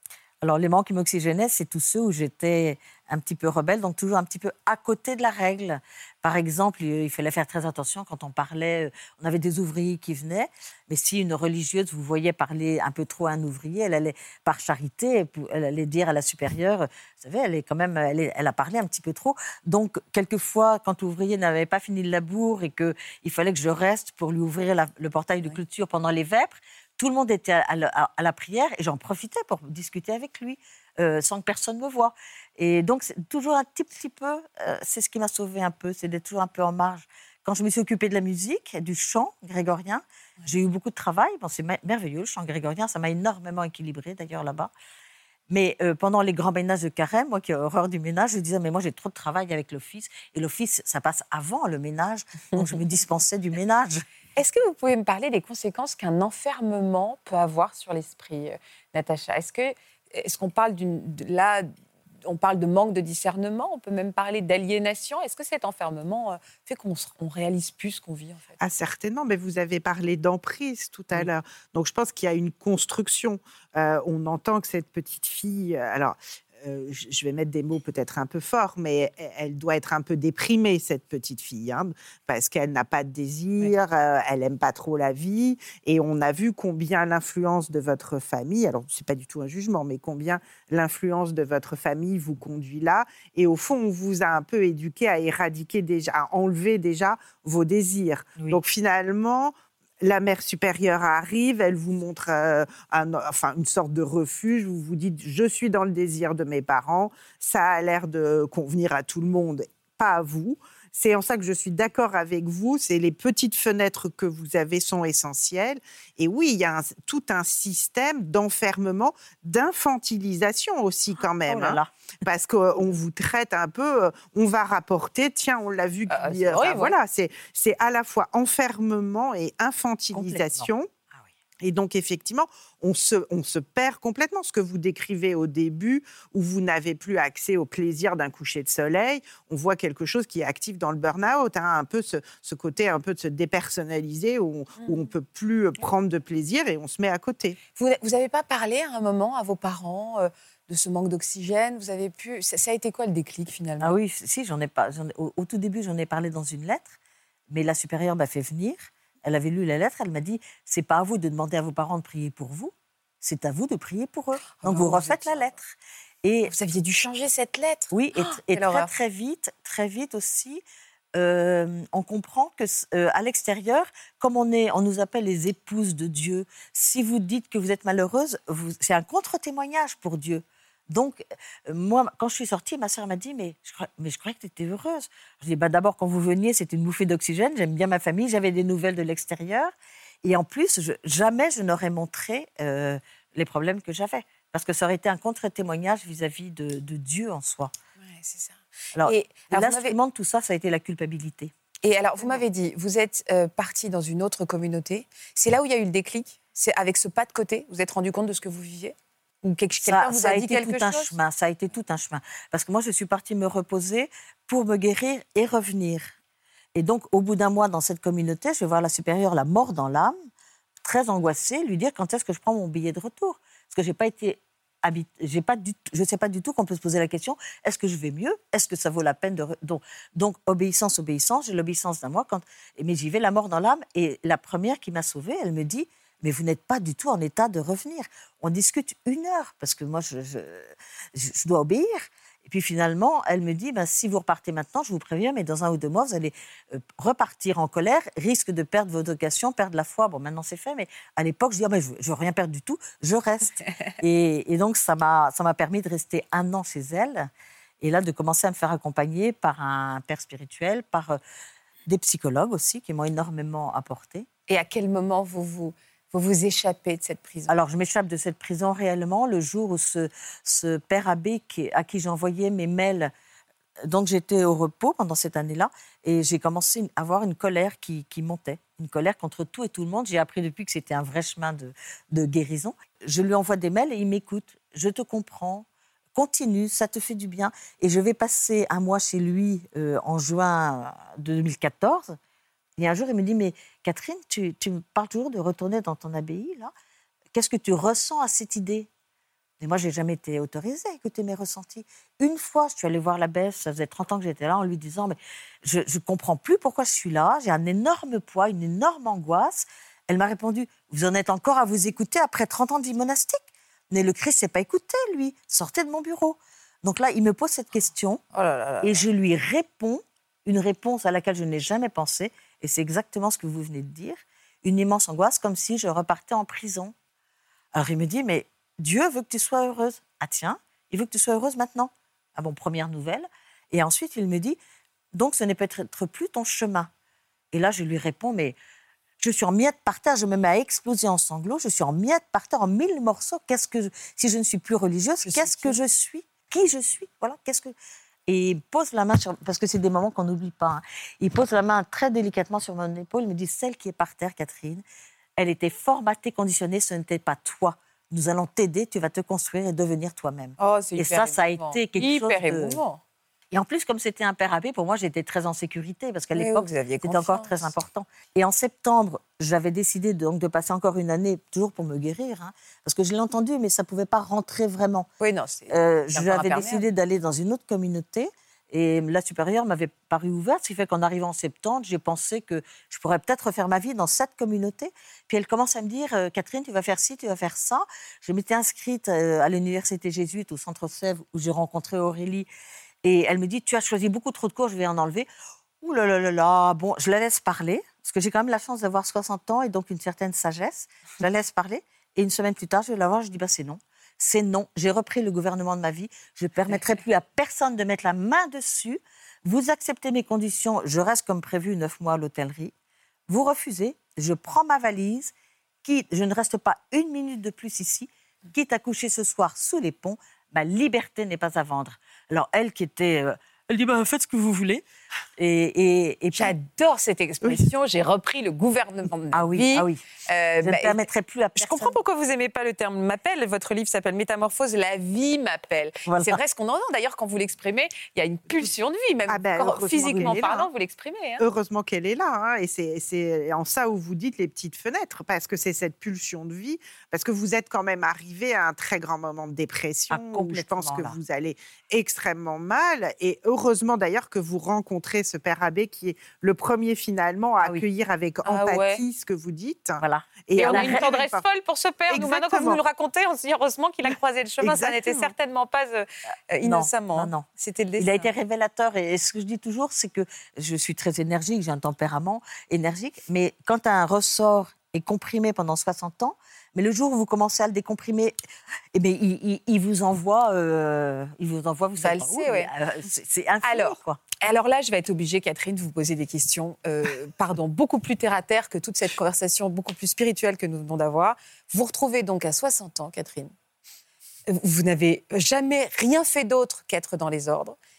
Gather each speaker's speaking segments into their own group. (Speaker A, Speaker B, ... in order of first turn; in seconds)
Speaker A: 0.4-44.7, 45.5-54.0, 98.3-98.6, 121.5-121.9, 130.1-131.2, 153.8-156.9, 157.5-166.5, 167.9-170.6, 171.1-189.7, 190.2-197.7, 198.9-201.5, 209.8-216.1, 216.7-220.2, 220.8-257.3, 257.8-261.2, 261.9-264.3, 267.5-273.1, 273.8-292.2, 292.8-296.7, 297.3-298.9, 299.6-318.2, 318.8-326.9, 327.7-334.6, 335.1-336.9, 337.5-338.6, 339.2-347.7, 348.3-354.8, 355.4-362.8, 363.5-375.1, 375.7-392.5, 393.0-395.3, 395.8-412.7, 413.3-415.3, 415.8-424.8, 425.4-426.5, 429.3-430.0, 430.6-432.0, 436.1-436.4, 450.1-451.2, 460.0-461.1, 466.6-467.4, 468.0-478.3, 478.9-484.2
Speaker B: 54.4-61.7, 62.2-68.6, 126.1-126.9, 147.8-153.9, 164.6-165.6, 166.5-168.9, 198.0-199.9, 201.8-211.1, 264.5-267.5, 318.3-319.1, 345.2-345.8, 360.6-363.0, 366.3-367.7, 375.2-376.8, 426.3-431.0, 431.6-441.4, 458.4-459.0, 460.6-468.3, 482.0-482.7, 483.6-493.5, 494.5-497.8
Speaker C: 68.6-130.9, 131.6-147.6, 439.3-440.7, 441.4-461.4, 462.1-462.8, 464.6-465.3